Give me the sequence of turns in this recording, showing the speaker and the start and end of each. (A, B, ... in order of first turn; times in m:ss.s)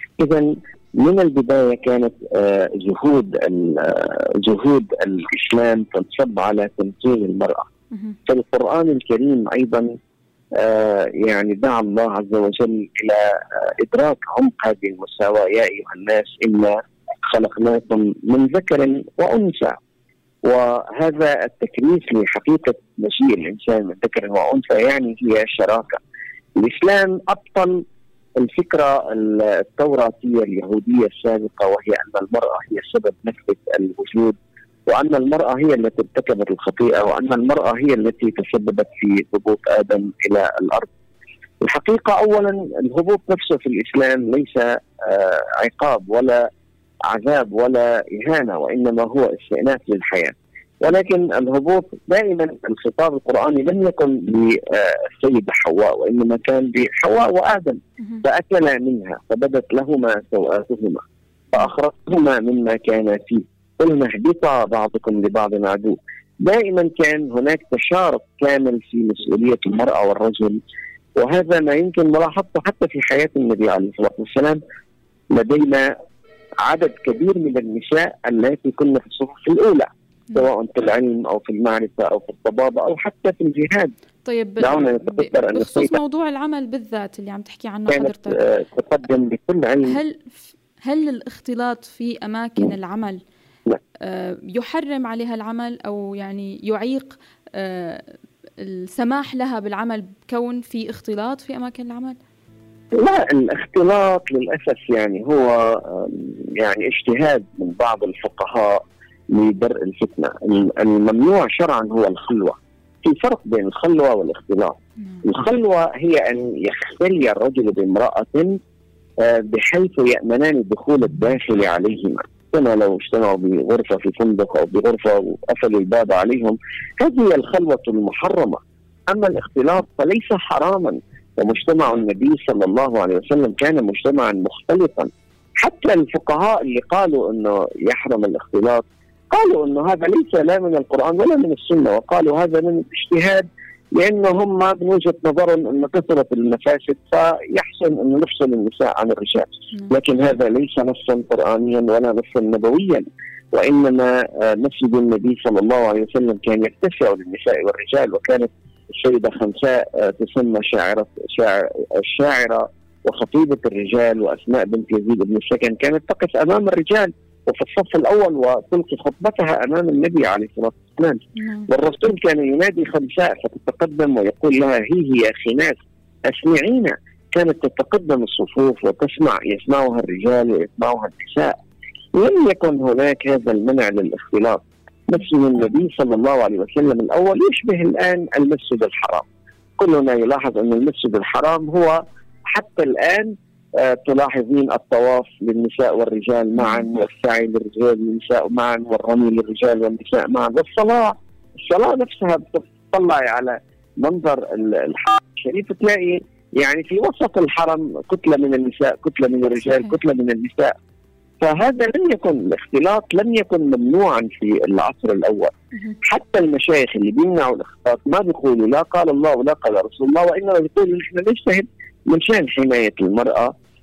0:00.2-0:07.7 A
0:07.9-0:08.2 B
0:08.3-0:09.9 A
0:10.5-0:19.8 A
0:20.4-0:26.0 A
0:26.6-0:27.8 A
0:28.4-0:40.9 A
0:41.6-0:46.4 A
0:47.1-1:10.6 A
1:11.2-1:14.6 A
1:15.3-1:15.9 A
1:16.6-1:23.9 A
1:24.2-1:28.4 B
1:24.6-1:25.9 A
1:27.9-1:30.0 A
1:29.8-1:33.2 B
1:34.0-1:42.2 B
1:42.9-1:58.6 A
1:55.0-1:55.2 B
1:59.2-3:01.5 A
2:51.4-2:51.7 B
3:02.2-3:09.2 A
3:09.8-3:30.7 A
3:16.6-3:16.8 B
3:31.4-3:43.5 A
3:35.7-3:36.0 B